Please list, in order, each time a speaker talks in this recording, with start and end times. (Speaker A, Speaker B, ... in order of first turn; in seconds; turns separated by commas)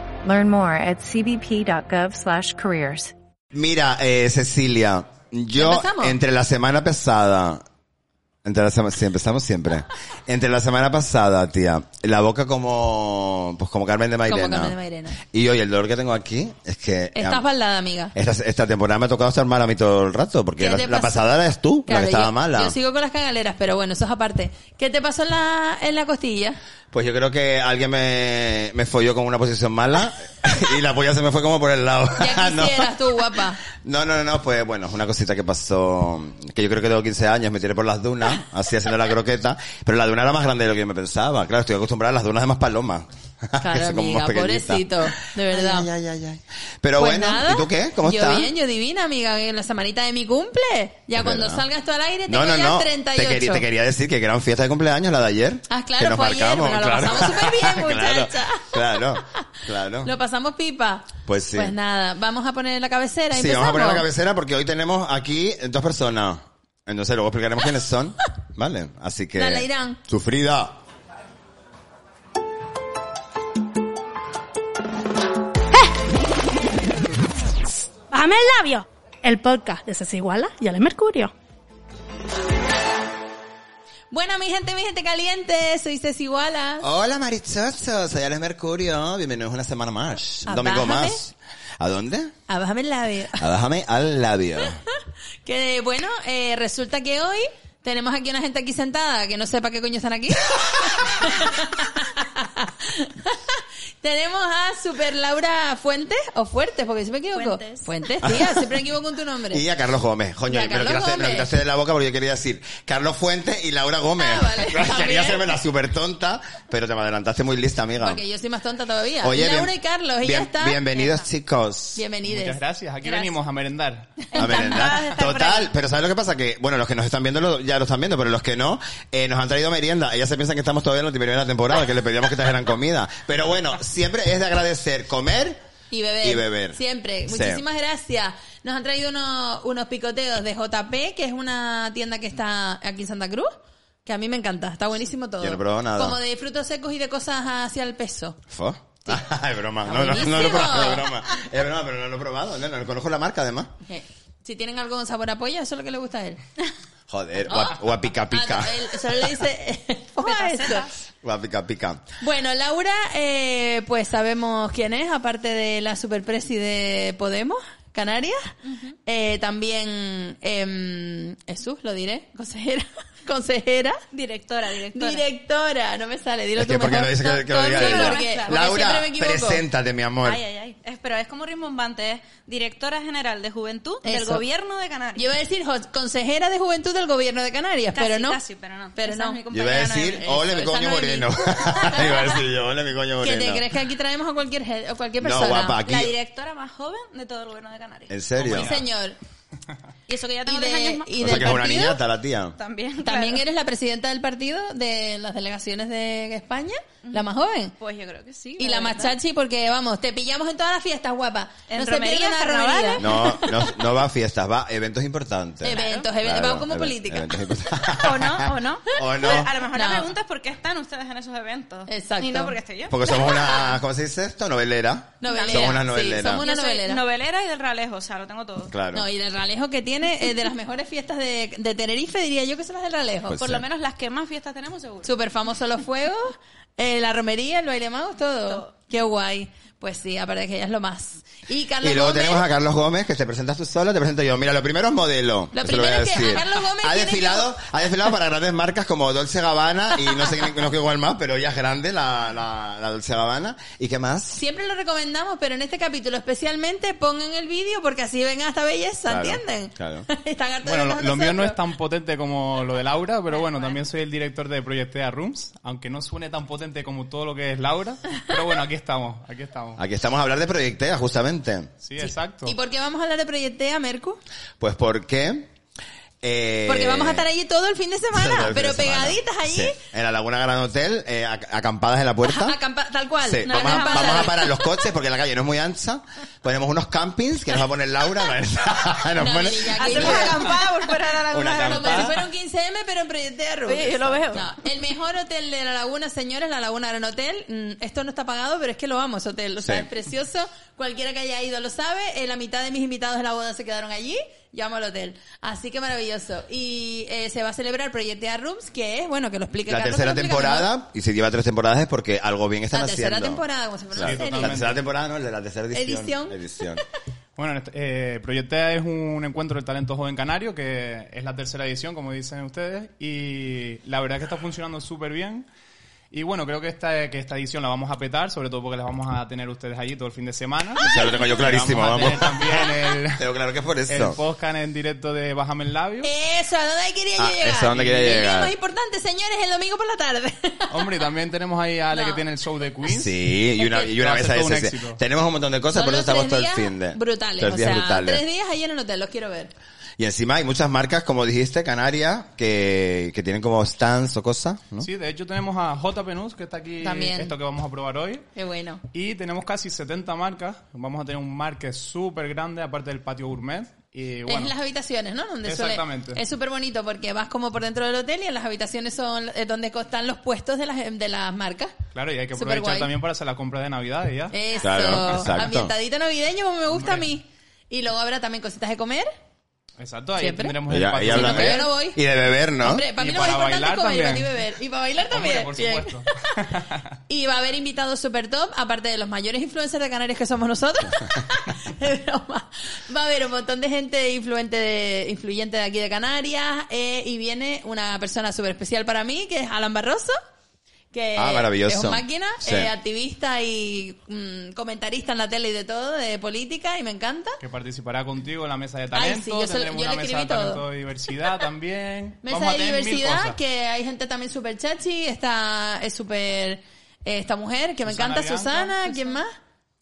Speaker A: 0.2-3.1, Speaker B: 3.5-7.6, Speaker C: 5.6-6.2, Speaker B: 8.4-17.4, Speaker C: 14.3-15.2, Speaker C: 17.2-18.1, Speaker B: 18.1-22.8, Speaker C: 20.6-21.2, Speaker C: 21.9-26.6, Speaker B: 26.9-33.0, Speaker C: 32.2-33.6, Speaker B: 33.7-48.5, Speaker C: 43.6-45.9, Speaker C: 47.0-53.6, Speaker B: 51.1-51.6, Speaker B: 52.3-60.1, Speaker C: 55.7-59.2, Speaker C: 60.0-64.0, Speaker B: 61.2-61.8, Speaker B: 63.3-70.8, Speaker C: 69.3-70.0, Speaker D: 78.1-81.3, Speaker C: 84.1-86.9, Speaker B: 86.8-92.3, Speaker C: 90.5-91.2, Speaker C: 92.5-93.5, Speaker B: 93.4-94.8, Speaker C: 95.5-109.6, Speaker E: 107.3-107.9, Speaker B: 108.2-108.6, Speaker B: 109.5-118.2, Speaker C: 110.5-111.5, Speaker C: 114.2-115.5, Speaker C: 118.0-120.8, Speaker B: 119.2-122.0, Speaker E: 121.0-121.2, Speaker C: 122.0-122.6, Speaker F: 122.3-124.2, Speaker E: 123.0-123.3, Speaker E: 124.3-125.7, Speaker B: 124.4-135.6, Speaker C: 135.9-143.5, Speaker B: 136.2-137.6, Speaker C: 144.1-148.4, Speaker B: 145.4-146.2, Speaker B: 148.5-153.7, Speaker C: 149.8-151.1, Speaker C: 153.8-156.4, Speaker B: 157.1-159.4, Speaker C: 157.5-157.8, Speaker C: 158.3-160.9, Speaker E: 160.2-161.0, Speaker B: 161.2-162.1, Speaker C: 162.2-168.6, Speaker E: 168.7-168.9, Speaker C: 169.1-174.0, Speaker E: 174.1-175.2, Speaker C: 174.9-179.6, Speaker B: 176.6-180.4, Speaker E: 177.7-178.8, Speaker E: 180.2-185.2, Speaker C: 184.1-184.4, Speaker C: 185.2-188.4, Speaker E: 187.9-192.4, Speaker C: 189.0-189.4, Speaker B: 189.5-193.7, Speaker C: 193.2-195.8, Speaker B: 195.2-196.1, Speaker E: 195.8-198.2, Speaker B: 198.1-198.7, Speaker C: 198.4-199.2, Speaker F: 198.5-198.8, Speaker E: 200.1-201.5, Speaker C: 200.5-202.0, Speaker B: 201.2-202.6, Speaker E: 202.6-203.4, Speaker C: 203.0-207.8, Speaker E: 207.1-209.2, Speaker C: 208.6-213.7, Speaker E: 211.7-213.1, Speaker B: 213.0-219.5, Speaker C: 215.6-217.5, Speaker E: 215.7-216.1, Speaker E: 217.9-223.6, Speaker C: 219.7-220.1, Speaker C: 221.9-222.6, Speaker B: 222.9-226.4, Speaker C: 225.2-227.0, Speaker E: 225.3-228.8, Speaker B: 228.7-229.1, Speaker C: 228.9-233.4, Speaker B: 233.3-233.6, Speaker E: 233.4-235.1, Speaker C: 235.0-242.4, Speaker B: 241.8-254.4, Speaker C: 245.6-247.5, Speaker C: 254.3-261.6, Speaker B: 259.1-260.1, Speaker F: 260.6-269.8, Speaker E: 263.3-263.8, Speaker B: 269.8-271.7, Speaker F: 271.8-272.6, Speaker C: 272.0-274.2, Speaker B: 274.6-275.5, Speaker B: 276.2-277.3, Speaker C: 276.7-279.8, Speaker B: 278.1-282.6, Speaker C: 282.2-284.7, Speaker B: 283.2-290.5, Speaker E: 283.5-284.4, Speaker C: 289.2-310.7, Speaker E: 289.8-292.2, Speaker B: 291.3-292.2, Speaker E: 293.7-294.4, Speaker B: 293.8-294.5, Speaker B: 299.6-299.9, Speaker B: 309.7-313.4, Speaker C: 312.7-314.6, Speaker B: 314.0-316.8, Speaker F: 314.0-314.8, Speaker C: 315.7-316.4, Speaker F: 317.4-325.5, Speaker F: 326.1-333.2, Speaker B: 330.8-334.2, Speaker F: 333.9-336.1, Speaker C: 336.0-341.0, Speaker B: 337.2-338.5, Speaker F: 340.7-345.0, Speaker C: 341.9-342.2, Speaker B: 342.9-348.2, Speaker C: 345.7-349.5, Speaker B: 350.0-354.9, Speaker F: 354.8-358.3, Speaker C: 356.8-357.4, Speaker C: 358.4-358.8, Speaker F: 358.9-364.6, Speaker C: 364.2-371.8, Speaker F: 365.4-366.2, Speaker F: 371.9-374.4, Speaker C: 372.4-372.9, Speaker C: 374.3-379.1, Speaker B: 374.6-375.7, Speaker F: 376.7-377.1, Speaker F: 379.8-381.7, Speaker C: 380.2-382.0, Speaker B: 380.7-382.9, Speaker C: 382.6-386.4, Speaker F: 382.9-384.4, Speaker F: 385.1-386.9, Speaker C: 387.1-400.2, Speaker C: 400.9-407.4, Speaker B: 401.2-402.7, Speaker F: 407.4-413.4, Speaker C: 408.9-410.6, Speaker C: 412.2-419.4, Speaker F: 417.9-418.9